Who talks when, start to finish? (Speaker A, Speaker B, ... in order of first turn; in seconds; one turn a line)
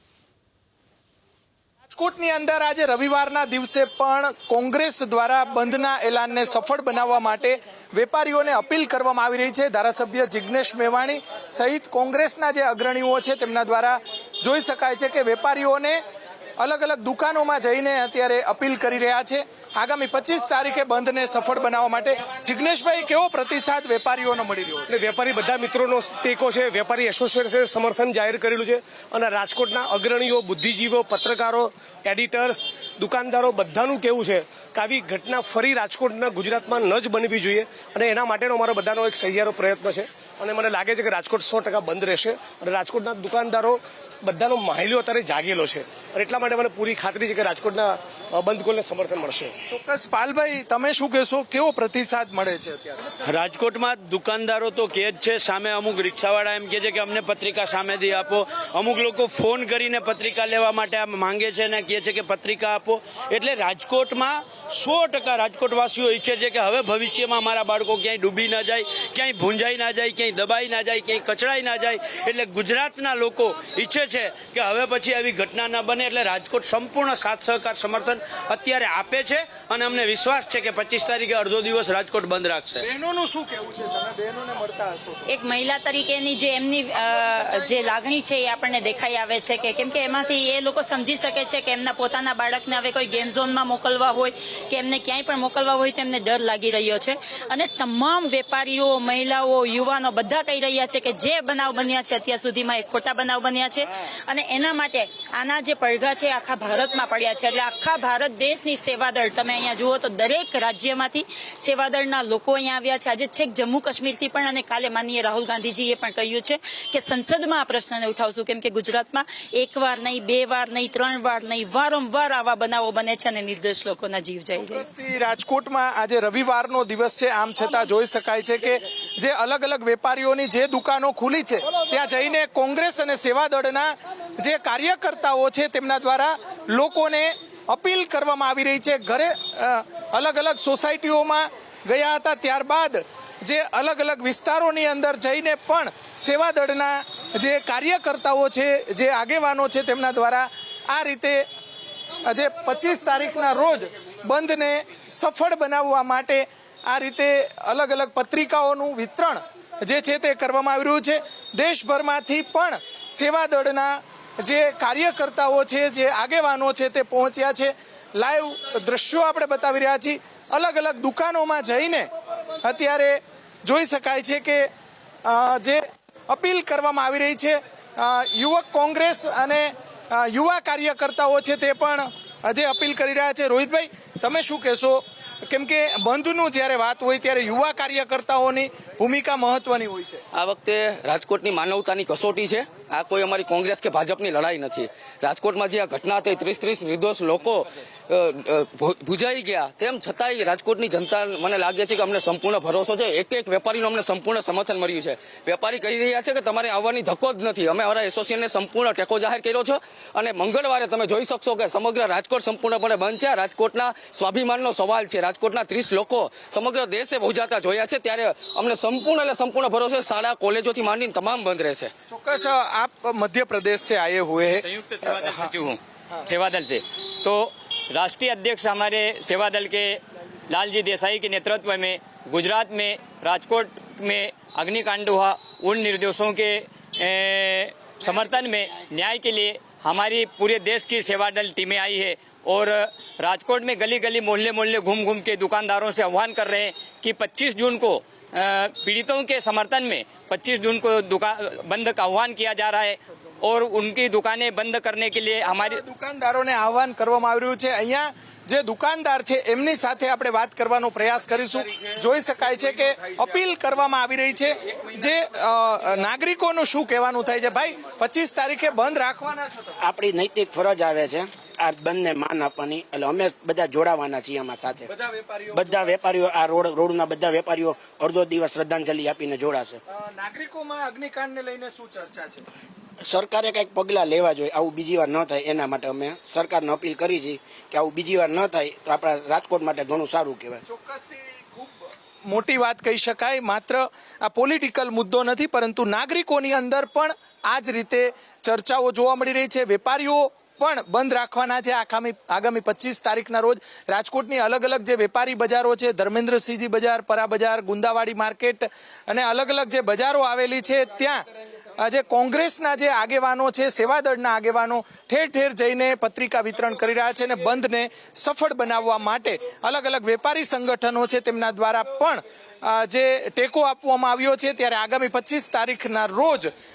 Speaker A: 1.9-16.0
Speaker A: 16.6-24.9
Speaker B: 24.9-49.5
Speaker A: 49.7-53.0
Speaker C: 53.2-82.8
Speaker A: 82.8-85.3
Speaker D: 85.3-124.7
Speaker A: 87.2-88.0
Speaker A: 124.6-151.5
Speaker A: 152.3-172.1
Speaker A: 172.6-174.7
Speaker A: 175.2-190.2
Speaker E: 190.3-221.9
Speaker A: 222.1-225.6
Speaker F: 224.7-255.8
Speaker A: 255.4-269.7
Speaker G: 269.8-274.9
Speaker A: 274.9-276.1
Speaker G: 275.5-279.8
Speaker A: 279.9-282.4
Speaker G: 283.1-290.6
Speaker A: 290.7-311.3
Speaker A: 311.8-326.5